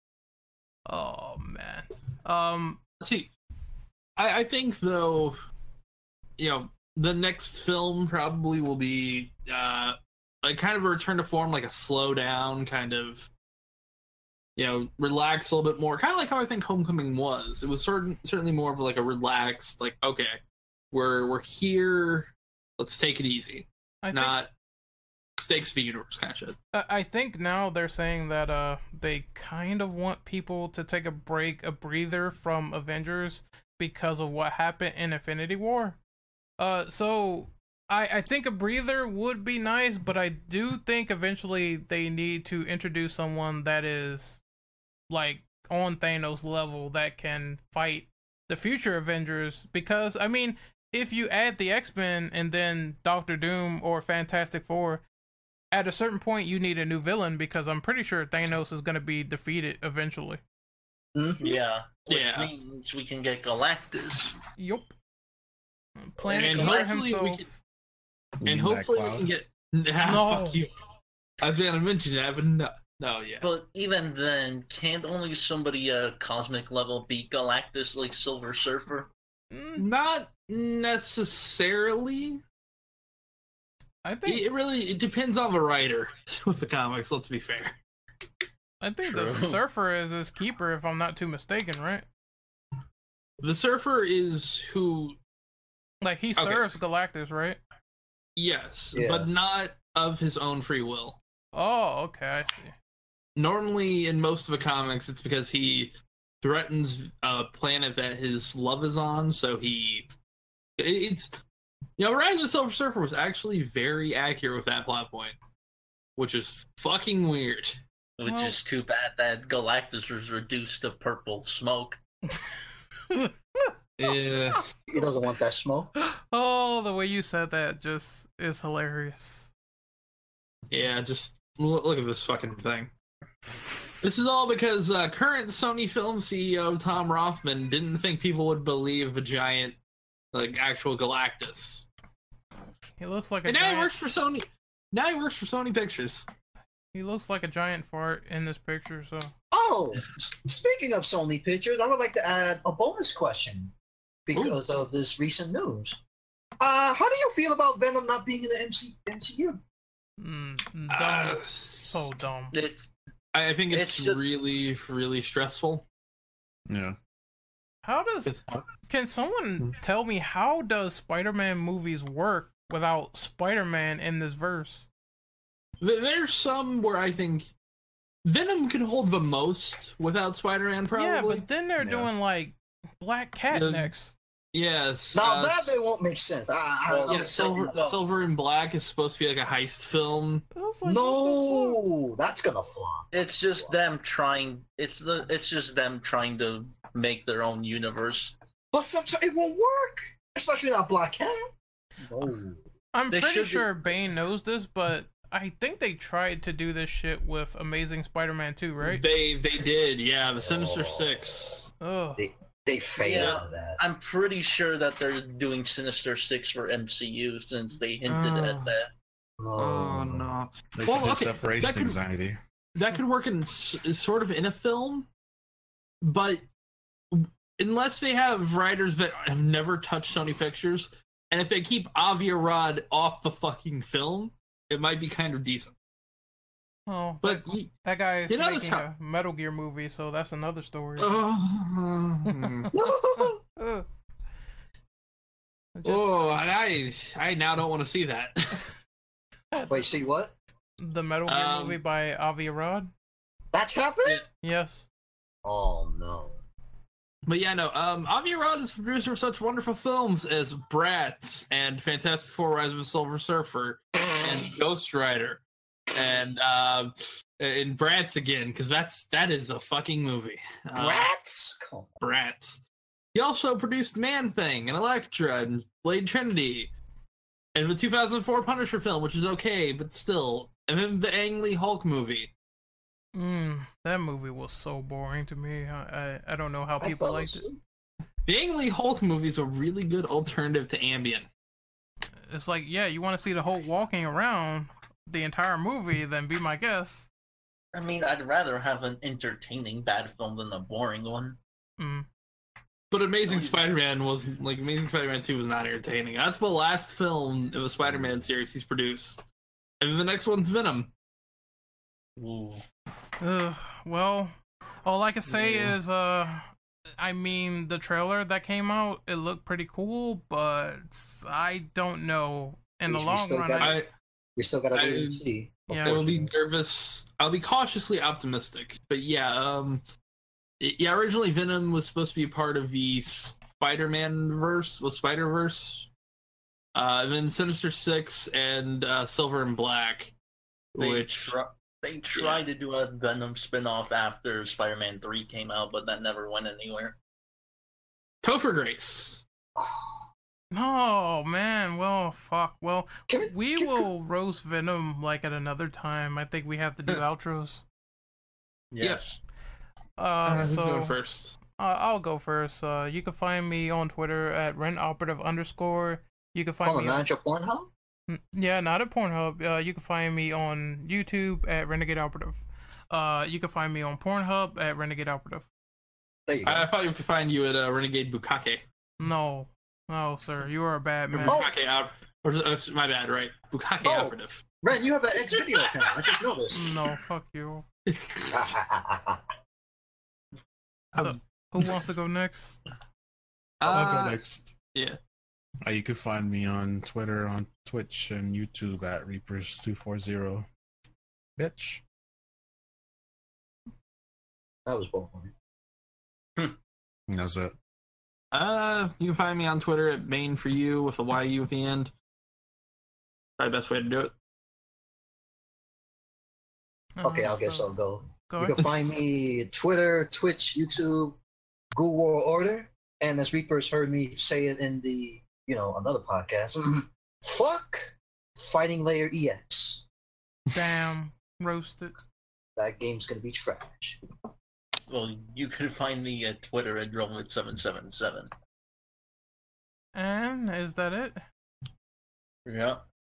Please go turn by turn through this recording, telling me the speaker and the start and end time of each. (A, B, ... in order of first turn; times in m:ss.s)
0:00.8-0:02.8 A
0:03.0-0:03.3 B
0:04.2-0:05.4 B
0:06.4-0:13.3 B
0:14.6-0:24.5 B
0:24.0-0:24.4 A
0:25.4-0:26.6 B
0:26.7-0:36.0 A
0:36.6-0:44.4 A
0:45.1-0:55.0 A
0:55.7-1:00.4 A
1:01.1-1:01.6 C
1:01.4-1:04.4 D
1:02.1-1:02.5 B
1:04.6-1:04.9 A
1:06.1-1:07.6 A
1:06.2-1:06.9 D
1:06.3-1:07.5 B
1:08.4-1:09.3 E
1:08.4-1:10.7 B
1:10.0-1:10.6 A
1:11.4-1:13.4 B
1:13.4-1:19.1 D
1:19.5-1:19.8 A
1:19.8-1:22.4 B
1:24.0-1:24.4 A
1:24.2-1:27.8 B
1:28.8-1:32.0 A
1:29.0-1:29.6 D
1:33.4-1:35.2 B
1:36.0-1:37.6 A
1:36.4-1:36.6 B
1:38.4-1:41.2 B
1:38.9-1:39.3 C
1:41.5-1:42.7 A
1:43.4-1:50.1 B
1:50.8-1:51.4 B
1:52.0-1:55.3 B
1:56.2-1:57.8 B
1:58.2-2:02.0 D
1:58.2-1:58.6 A
2:03.1-2:03.7 A
2:04.0-2:04.6 B
2:04.9-2:05.9 C
2:06.0-2:09.5 A
2:10.7-2:12.9 B
2:14.0-2:19.8 B
2:20.3-2:21.8 B
2:23.0-2:23.9 A
2:23.4-2:26.2 B
2:26.9-2:29.3 A
2:29.5-2:33.7 C
2:34.3-2:36.0 C
2:34.3-2:34.6 B
2:36.6-2:39.6 C
2:40.2-2:42.5 A
2:40.9-2:42.0 B
2:42.5-2:42.9 D
2:43.3-2:45.8 B
2:43.7-2:44.2 D
2:46.7-2:47.0 E
2:47.8-2:54.9 A
2:48.3-2:48.6 B
2:55.8-2:57.5 B
2:58.2-3:01.5 B
3:00.9-3:04.1 A
3:01.8-3:02.1 E
3:03.5-3:03.9 B
3:04.5-3:05.8 B
3:05.1-3:07.8 C
3:06.9-3:08.0 D
3:07.1-3:10.4 B
3:10.5-3:11.8 A
3:10.8-3:13.7 C
3:13.1-3:18.4 D
3:18.7-3:21.5 C
3:22.1-3:22.6 C
3:22.9-3:29.0 A
3:23.1-3:23.9 D
3:28.8-3:31.7 B
3:30.4-3:31.2 C
3:31.8-3:32.2 A
3:32.2-3:33.8 C
3:33.0-3:38.9 D
3:38.1-3:38.6 B
3:39.4-3:40.3 C
3:39.6-3:42.0 B
3:40.8-3:42.4 E
3:42.7-3:45.1 B
3:46.0-3:46.4 B
3:47.1-3:55.7 B
3:56.9-4:01.2 A
3:57.2-3:57.7 B
3:58.3-3:58.8 B
4:01.0-4:02.7 B
4:02.3-4:03.8 A
4:02.7-4:03.4 C
4:05.7-4:06.1 A
4:05.8-4:08.7 B
4:09.5-4:09.9 A
4:09.7-4:10.3 C
4:10.8-4:12.9 A
4:11.3-4:11.8 B
4:13.5-4:14.2 C
4:14.4-4:14.8 A
4:15.4-4:16.4 C
4:17.2-4:25.4 B
4:25.9-4:31.1 B
4:30.7-4:31.9 C
4:32.0-4:32.6 B
4:33.1-4:36.7 B
4:37.5-4:42.3 B
4:43.1-4:47.4 A
4:46.8-4:47.6 C
4:48.2-4:51.3 B
4:52.3-4:57.1 A
4:57.7-5:01.4 D
5:01.8-5:02.0 A
5:02.9-5:09.2 B
5:03.3-5:03.6 D
5:09.8-5:10.9 B
5:12.2-5:12.6 D
5:13.2-5:16.5 A
5:17.0-5:23.8 A
5:22.9-5:23.8 C
5:23.6-5:23.9 B
5:24.4-5:26.3 C
5:24.7-5:29.8 B
5:25.7-5:26.0 A
5:30.6-5:35.9 B
5:36.7-5:40.1 B
5:40.7-5:41.4 B
5:40.7-5:47.0 D
5:42.1-5:42.4 B
5:48.2-5:49.2 B
5:49.6-5:50.0 C
5:50.5-5:57.6 A
5:53.1-5:53.9 C
5:58.7-5:59.2 D
6:00.0-6:00.9 A
6:00.2-6:01.4 B
6:01.5-6:07.1 A
6:06.6-6:07.7 C
6:08.1-6:15.4 A
6:16.3-6:16.7 C
6:16.4-6:18.6 B
6:19.0-6:21.4 A
6:21.1-6:24.4 B
6:21.2-6:21.5 C
6:23.8-6:26.7 C
6:25.6-6:25.9 B
6:26.5-6:27.6 A
6:27.8-6:28.5 B
6:28.3-6:29.2 C
6:31.0-6:32.6 A
6:33.6-6:35.0 B
6:33.6-6:34.5 E
6:35.6-6:40.5 E
6:41.4-6:41.8 E
6:44.6-6:45.3 C
6:47.1-6:47.5 E
6:48.3-6:51.9 B
6:53.4-6:54.1 B
6:57.0-6:58.9 A
6:57.0-7:01.2 C
7:01.7-7:09.8 C
7:10.5-7:11.9 A
7:12.6-7:14.0 C
7:14.9-7:18.3 D
7:19.9-7:21.2 A
7:22.4-7:22.8 D